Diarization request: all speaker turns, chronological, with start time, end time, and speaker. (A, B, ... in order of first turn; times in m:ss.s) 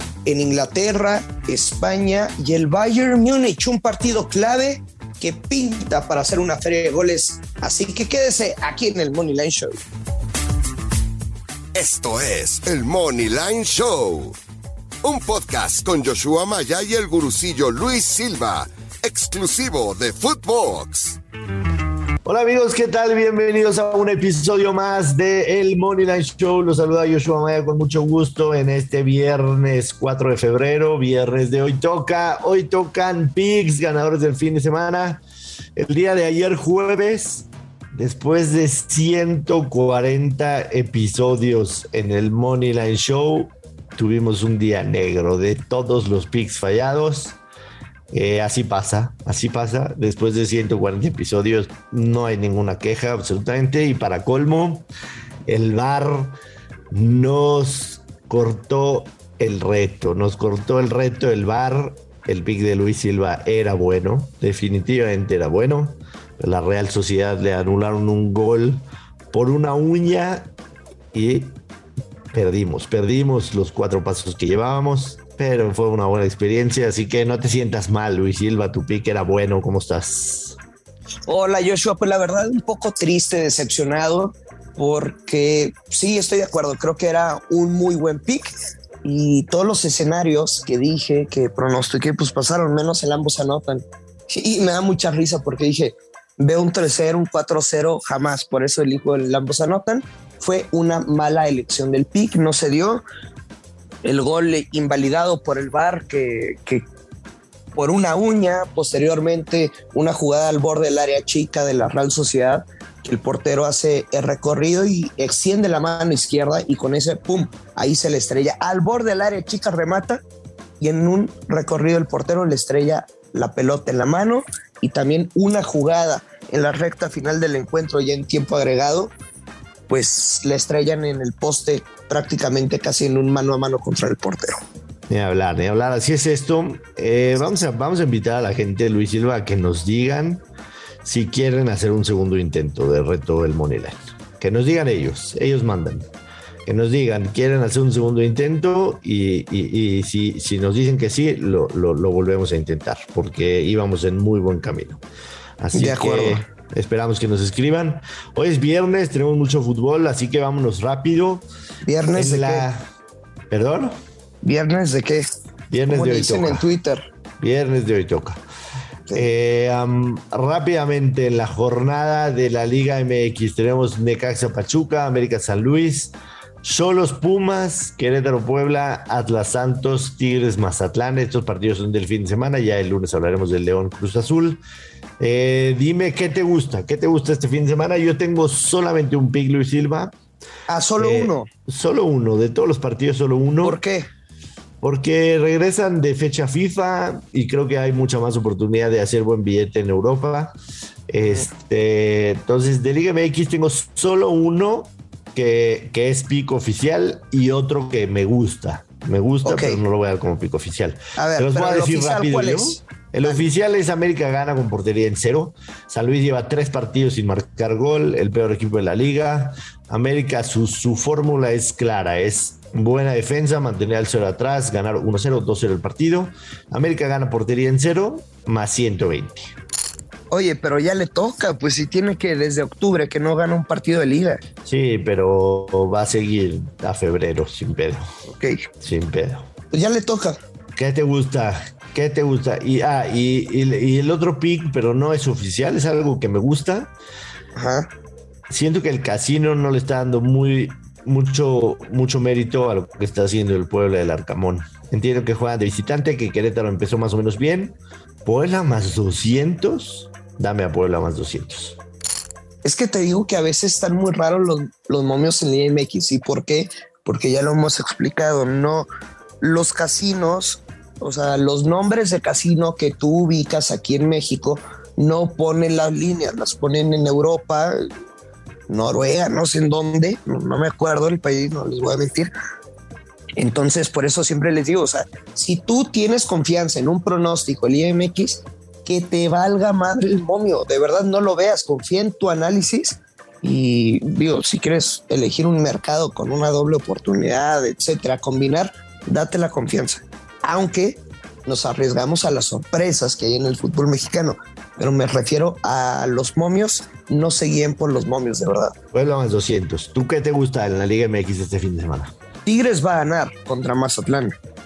0:00.2-0:09.8 A
0:11.7-0:14.3 B
0:15.0-0:21.2 B
0:22.2-0:35.2 C
0:35.8-0:47.4 C
0:48.1-0:54.9 C
0:55.4-0:56.3 C
0:56.9-1:10.5 C
1:11.1-1:11.6 C
1:12.3-1:20.6 C
1:21.3-1:28.5 A
1:29.0-1:43.0 A
1:44.0-1:46.8 A
1:47.7-2:00.2 A
2:00.8-2:09.1 A
2:09.9-2:14.5 A
2:15.1-2:20.4 C
2:21.0-2:26.0 C
2:26.6-2:35.0 C
2:35.6-2:41.4 C
2:35.7-2:36.4 A
2:41.8-2:42.6 A
2:42.1-2:42.8 C
2:43.5-2:43.9 C
2:44.4-2:45.2 A
2:45.7-2:46.6 C
2:45.9-2:47.0 A
2:47.4-2:48.4 C
2:49.1-3:04.6 C
3:05.2-3:10.1 C
3:10.7-3:11.5 A
3:11.0-3:13.8 C
3:13.6-3:14.1 A
3:14.8-3:20.5 C
3:21.1-3:49.5 C
3:29.4-3:29.8 A
3:31.2-3:33.4 A
3:50.3-3:54.4 A
3:54.6-3:58.0 C
3:58.3-3:58.6 A
3:58.8-3:59.5 C
3:59.7-4:00.4 A
4:00.8-4:06.9 C
4:07.6-4:07.9 A
4:08.5-4:21.8 C
4:22.6-4:28.9 A
4:29.4-4:37.8 A
4:38.7-4:42.3 A
4:43.4-5:08.7 A
5:08.9-5:12.1 C
5:12.4-5:14.4 A